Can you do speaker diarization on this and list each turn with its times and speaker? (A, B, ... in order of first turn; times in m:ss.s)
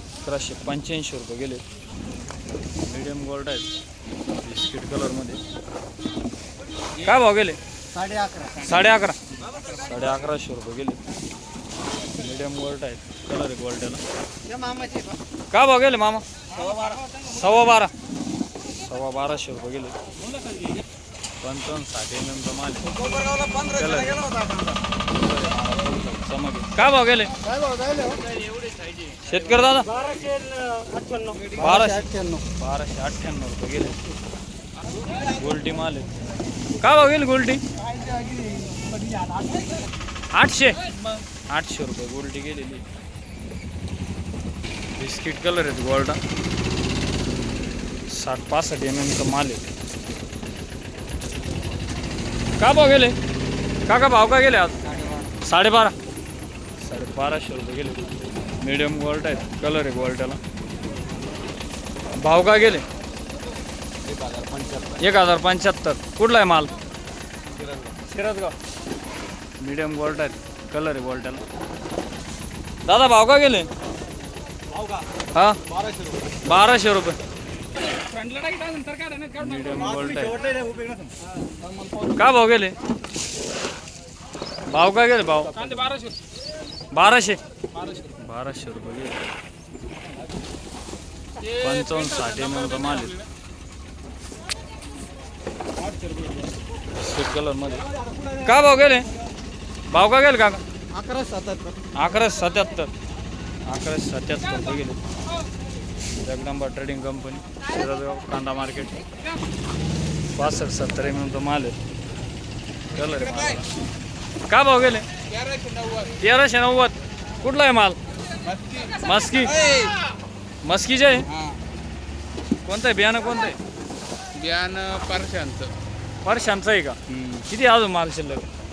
0:00.2-0:01.6 A
0:02.8-0:03.6 A
0:04.4-0:05.4 A
0:07.0-0:07.6 A
0:07.9-0:08.7 B
0:08.6-0:09.2 A
0:09.7-0:11.0 A
0:12.2-0:14.0 A
0:14.5-0:15.1 B
0:15.5-0:16.2 A
0:16.5-0:17.0 B
0:17.2-0:17.9 A
0:18.8-0:19.9 A
0:21.4-0:24.3 A
0:23.1-0:24.8 B
0:25.1-0:27.3 A
0:27.5-0:28.3 B
0:29.2-0:29.9 A
0:30.0-0:32.4 B
0:31.5-0:34.0 A
0:35.2-0:36.1 A
0:36.8-0:37.6 A
0:37.9-0:39.4 B
0:40.3-0:40.8 A
0:41.5-0:42.8 A
0:45.0-0:46.2 A
0:48.1-0:49.6 A
0:52.6-0:53.2 A
0:53.9-0:54.8 A
0:54.8-0:55.3 B
0:55.4-0:55.9 A
0:56.8-1:00.4 A
1:02.2-1:02.8 A
1:04.1-1:05.0 B
1:05.0-1:06.7 A
1:07.5-1:08.5 B
1:09.6-1:11.4 A
1:12.8-1:13.7 A
1:15.3-1:15.6 A
1:15.7-1:16.2 B
1:16.4-1:17.2 A
1:18.1-1:19.3 C
1:19.3-1:20.4 A
1:20.0-1:21.1 B
1:22.1-1:22.7 A
1:24.7-1:25.9 A
1:25.8-1:26.1 C
1:26.9-1:27.4 A
1:28.1-1:29.2 A
1:31.5-1:33.2 A
1:36.9-1:37.8 A
1:38.4-1:39.1 A
1:39.9-1:40.6 A
1:40.9-1:41.8 B
1:42.0-1:42.9 A
1:43.7-1:45.0 A
1:46.2-1:49.0 A
1:50.4-1:51.8 A
1:52.9-1:53.7 A
1:54.5-1:55.1 A
1:55.3-1:56.2 C
1:56.2-1:58.0 A
1:58.4-2:00.0 C
1:59.0-1:59.6 A
2:00.6-2:01.3 A
2:01.3-2:01.6 C
2:02.6-2:03.6 A
2:04.3-2:05.7 C
2:06.2-2:08.5 A